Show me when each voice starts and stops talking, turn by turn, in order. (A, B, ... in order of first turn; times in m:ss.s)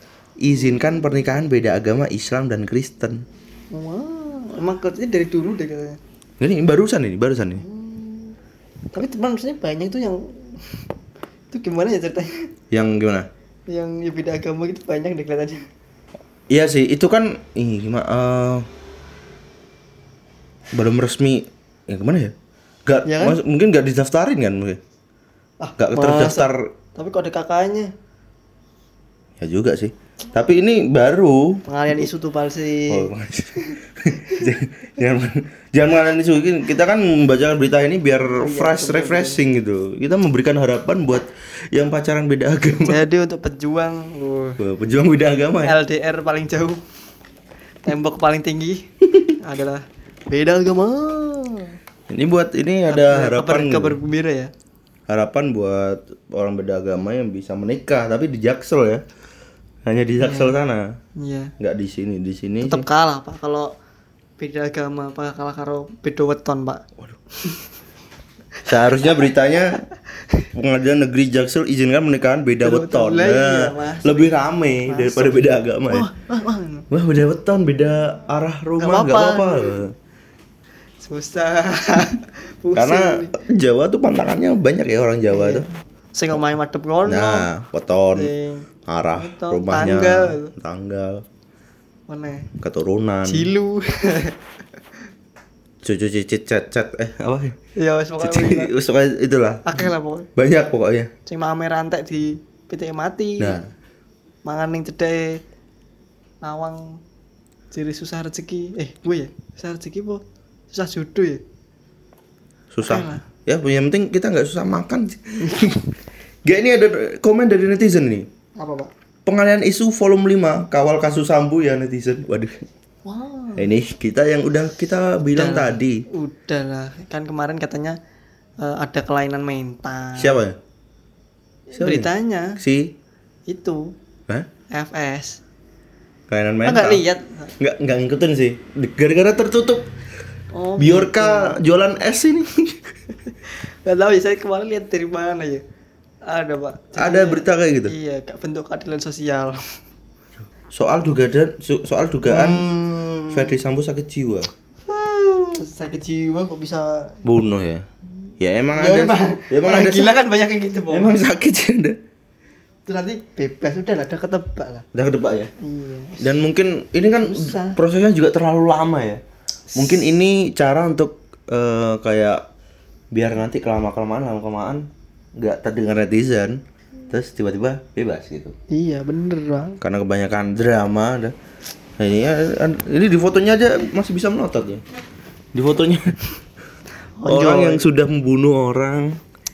0:00.4-0:03.2 A
0:00.5-0:01.0 B
0:03.7-0:06.0 B
0:06.4-0:07.6 A
0:07.6-0:08.4 B
0:08.9-0:10.9 B
0:11.5-0:12.5 B
0:12.7-0:13.3 A
0:13.7-0:15.6 B
0:16.5-0:18.7 A
0:20.7-0:22.3 A
0:22.8-0:24.8 A
0:23.0-0:23.4 B
0:25.6-0:27.9 B
0:25.8-0:26.7 A
0:29.4-0:31.6 A
0:31.7-0:33.7 B
0:32.9-0:43.0 A
0:38.4-0:39.4 B
0:42.8-0:44.6 B
0:44.6-0:45.8 A
0:45.6-0:46.8 B
0:47.8-0:48.9 B
0:49.4-0:51.8 B
0:52.1-0:54.0 A
0:52.9-0:54.5 B
0:55.1-0:59.0 A
0:59.8-1:01.0 A
1:00.2-1:00.6 B
1:01.2-1:01.5 B
1:01.6-1:02.8 A
1:02.6-1:03.7 B
1:04.4-1:07.7 B
1:08.6-1:10.5 B
1:08.6-1:09.8 A
1:10.5-1:16.1 A
1:12.6-1:16.8 B
1:16.9-1:19.9 A
1:18.8-1:19.8 B
1:21.0-1:23.3 B
1:22.7-1:25.6 A
1:25.3-1:27.5 B
1:27.1-1:28.3 A
1:28.1-1:30.5 B
1:28.8-1:31.2 A
1:32.1-1:32.5 B
1:32.6-1:33.5 A
1:33.2-1:34.4 B
1:35.8-1:37.6 A
1:37.8-1:38.7 B
1:38.2-1:41.1 A
1:39.6-1:40.3 B
1:41.2-1:43.6 B
1:43.4-1:43.7 A
1:44.4-1:45.4 B
1:46.4-1:47.0 B
1:47.7-1:51.4 B
1:52.7-1:55.9 A
1:52.8-1:53.2 B
1:55.4-1:55.7 B
1:56.4-1:58.3 A
1:58.6-1:58.9 B
1:59.2-2:02.5 A
2:03.0-2:03.7 B
2:03.6-2:06.0 A
2:05.3-2:08.0 B
2:08.6-2:10.4 B
2:10.2-2:10.6 A
2:11.7-2:12.9 A
2:11.8-2:12.6 B
2:13.5-2:13.9 B
2:14.7-2:15.4 B
2:16.3-2:17.0 A
2:16.6-2:17.5 B
2:17.6-2:19.9 A
2:20.5-2:21.6 B
2:20.8-2:22.9 A
2:23.2-2:25.6 B
2:26.2-2:29.6 B
2:26.9-2:27.9 A
2:30.7-2:32.7 A
2:32.3-2:33.6 B
2:33.3-2:34.5 A
2:34.8-2:37.2 B
2:37.2-2:37.9 A
2:38.4-2:40.1 A
2:38.7-2:41.2 B
2:40.9-2:42.0 A
2:42.9-2:44.8 B
2:44.9-2:45.5 A
2:45.6-2:46.2 B
2:46.2-2:49.2 A
2:47.2-2:47.8 B
2:49.7-2:50.1 B
2:49.7-2:52.4 A
2:53.1-2:58.6 A
2:58.7-2:59.8 B
2:59.8-3:01.3 A
3:02.0-3:04.8 A
3:05.5-3:06.2 A
3:07.2-3:07.9 B
3:07.3-3:09.2 A